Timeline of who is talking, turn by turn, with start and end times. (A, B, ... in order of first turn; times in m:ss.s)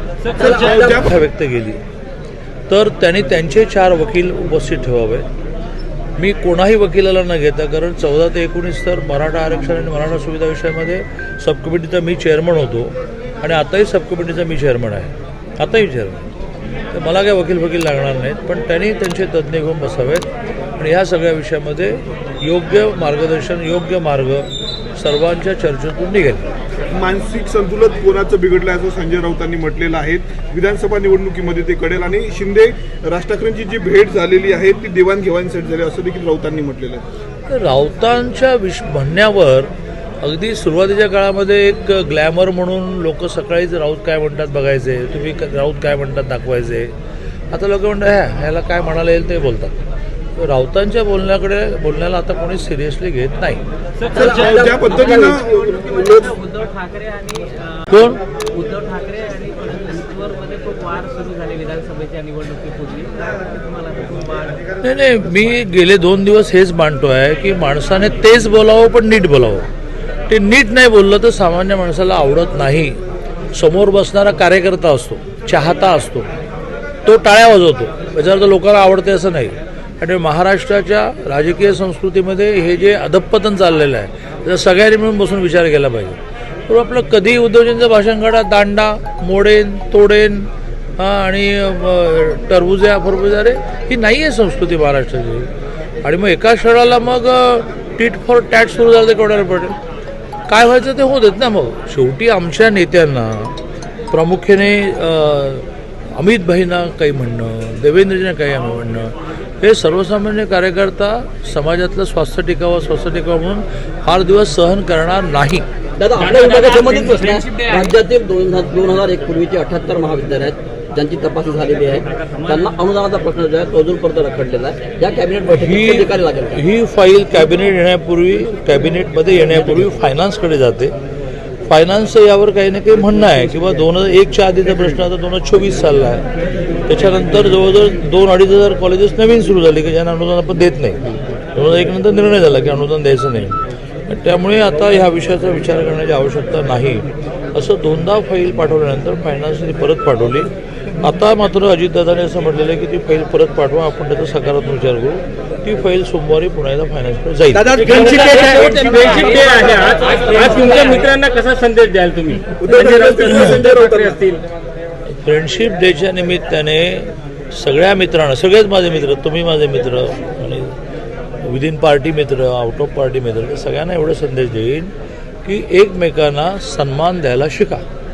0:00.4-0:01.0 A
0:00.4-0:01.8 B
0:00.4-0:01.0 C
0:02.7-0:05.3 B
0:06.2-0:16.3 B
0:16.9-0:20.3 B
0:20.8-0:26.5 B
0:26.9-0:37.1 C
0:37.5-0:46.9 B
0:47.5-0:49.8 B
0:50.4-0:53.6 B
0:54.1-0:56.3 A
0:54.2-0:56.1 C
0:55.2-0:57.8 D
0:57.9-0:58.2 B
0:58.4-1:04.7 D
1:04.8-1:09.7 B
1:10.3-1:13.0 B
1:13.5-1:16.3 B
1:17.0-1:35.5 B
1:36.0-1:39.8 B
1:40.5-1:43.6 B
1:44.1-1:55.7 B
1:56.0-2:06.6 A
2:05.5-2:11.0 B
2:11.6-2:16.3 B
2:16.9-2:21.0 B
2:21.5-2:37.9 B
2:37.7-2:44.4 E
2:37.8-2:38.5 C
2:42.5-2:44.1 C
2:45.2-2:50.8 B
2:51.4-2:54.9 B
2:55.4-2:57.8 B